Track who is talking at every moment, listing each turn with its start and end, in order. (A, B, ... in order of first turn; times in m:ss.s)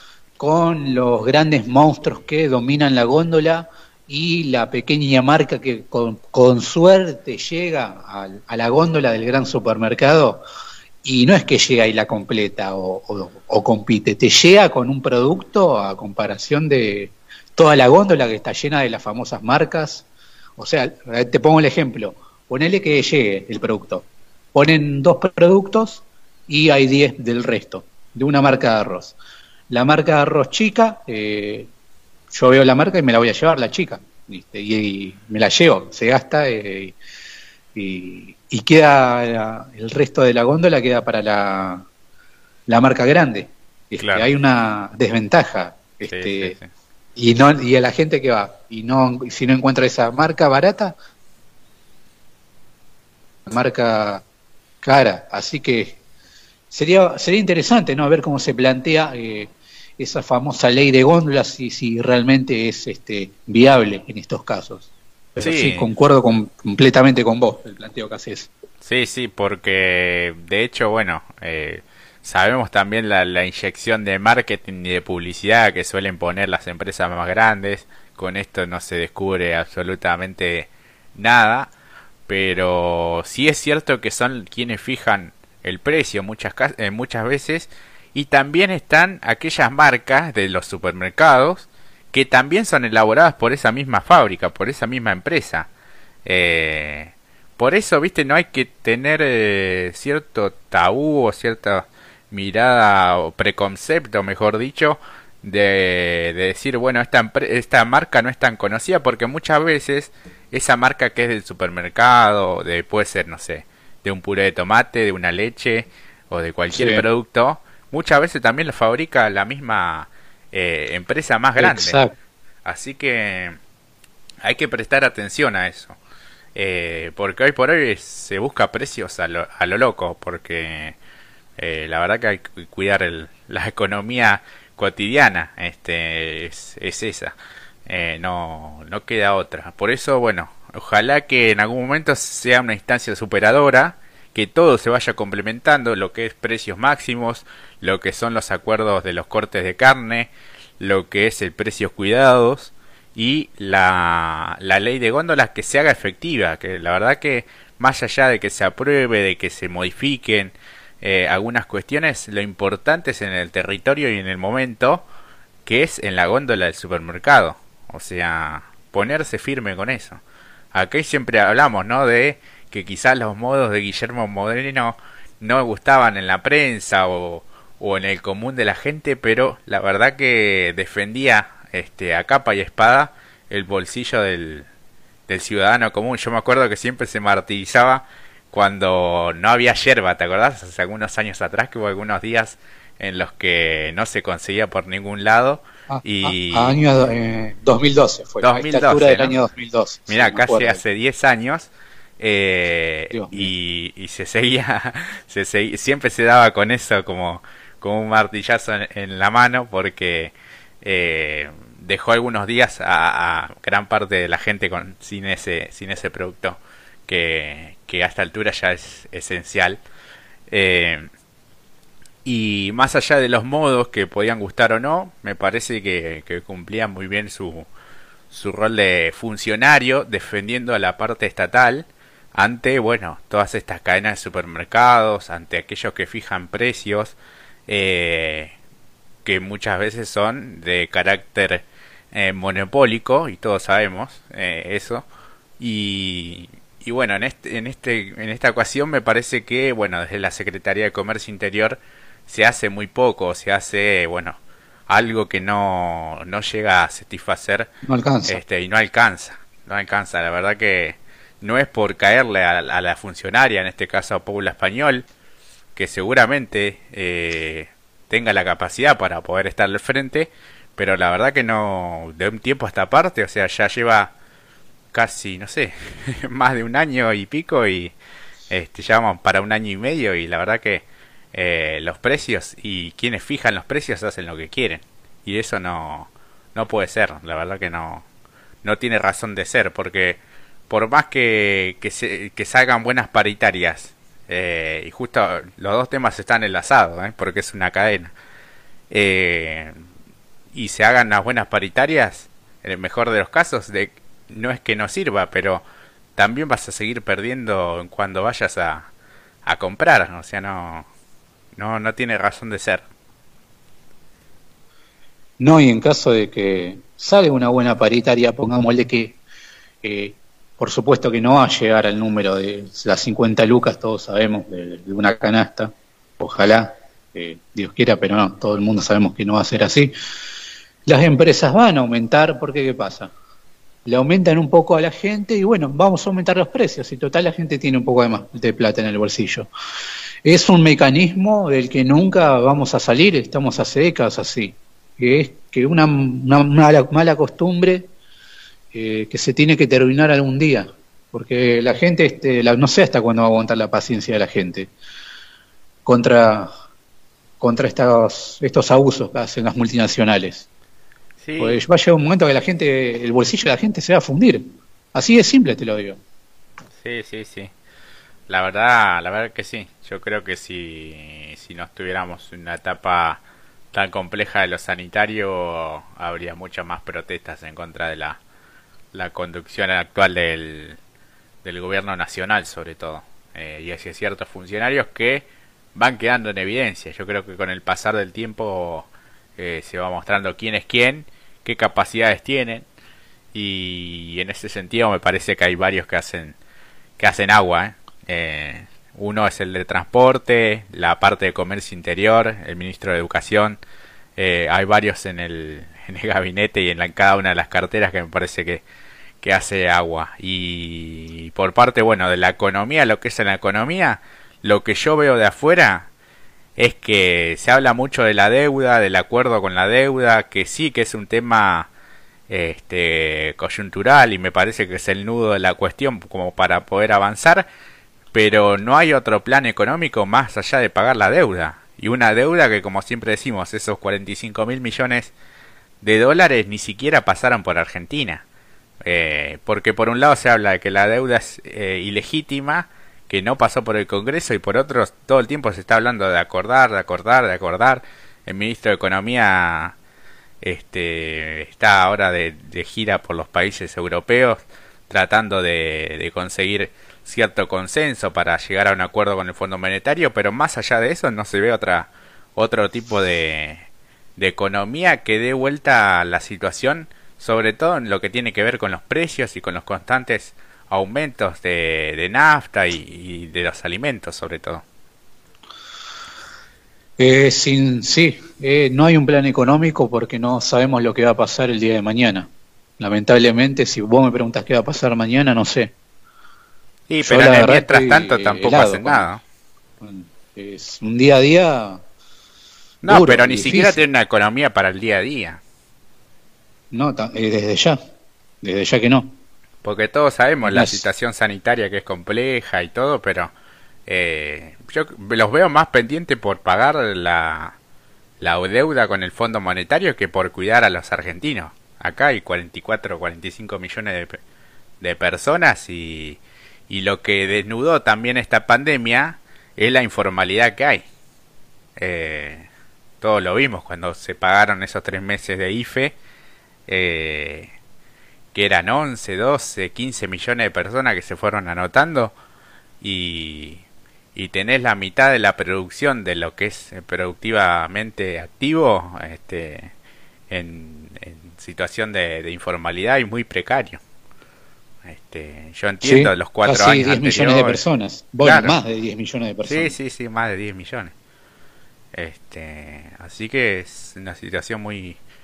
0:00.4-0:10.4 A
0:11.0-0:20.0 A
0:20.6-0:29.2 A
0:29.7-0:31.7 A
0:32.3-0:37.0 A
0:37.8-0:41.9 A
0:42.7-0:46.6 A
0:44.0-0:44.3 B
0:46.1-0:46.7 B
0:47.2-0:50.9 A
0:53.5-0:54.2 A
0:54.8-0:56.0 A
0:56.7-1:08.5 A
1:05.4-1:05.9 B
1:08.8-1:21.7 B
1:22.3-1:35.7 B
1:36.2-2:02.0 B
1:56.7-1:57.0 A
2:01.6-2:02.1 A
2:02.6-2:03.6 B
2:04.4-2:06.0 B
2:06.6-2:11.0 B
2:11.6-2:17.3 B
2:17.9-2:45.0 B
2:45.7-2:50.2 B
2:50.7-3:04.7 B
3:05.3-3:16.8 B
3:15.9-3:20.8 A
3:18.4-3:19.4 B
3:20.1-3:39.8 B
3:23.1-3:23.5 A
3:40.5-3:41.1 B
3:42.2-3:47.7 B
3:48.3-3:57.2 B
3:57.7-3:58.5 B
3:59.2-4:05.0 B
4:05.6-4:17.7 B
4:17.8-4:18.4 A
4:18.3-4:25.1 B
4:25.8-4:34.1 B
4:34.9-4:37.9 B
4:38.5-4:48.0 B
4:48.6-4:58.1 B
4:58.9-4:59.8 B
5:00.5-5:05.6 B
5:06.2-5:08.9 B
5:09.4-5:10.9 B
5:11.6-5:12.8 B
5:15.4-5:19.2 A
5:19.8-5:29.9 A
5:30.9-5:33.1 A
5:33.9-5:39.5 A
5:40.2-5:47.9 A
5:48.7-5:54.7 A
5:55.8-5:56.5 A
5:57.4-6:00.5 A
6:01.2-6:01.6 B
6:01.4-6:06.0 A
6:06.8-6:07.5 B
6:08.3-6:18.2 B
6:18.9-6:20.8 B
6:21.4-6:32.7 B
6:33.3-6:36.4 B
6:37.0-6:43.6 B
6:44.2-6:48.6 B
6:49.2-6:55.9 B
6:56.6-7:01.7 B
7:02.3-7:07.5 B
7:08.1-7:15.1 B
7:15.8-7:18.2 B
7:18.8-7:29.8 B
7:30.4-7:54.6 B
7:57.0-8:05.7 A
8:06.9-8:09.2 B
8:07.0-8:09.1 A
8:09.8-8:11.8 A
8:12.8-8:15.4 B
8:12.8-8:13.8 A
8:16.7-8:17.8 A
8:18.4-8:19.1 A
8:19.6-8:23.3 B
8:20.4-8:20.8 A
8:23.9-8:27.6 B
8:28.2-8:34.2 B
8:34.8-8:40.9 B
8:41.8-8:42.5 B
8:43.0-8:46.0 B
8:46.7-8:47.5 B
8:48.3-8:52.1 B
8:52.8-8:53.6 B
8:54.2-8:59.7 B
9:00.3-9:03.8 B
9:04.8-9:07.6 B
9:05.8-9:09.7 A
9:08.2-9:08.6 B
9:09.4-9:10.9 B
9:11.9-9:15.0 B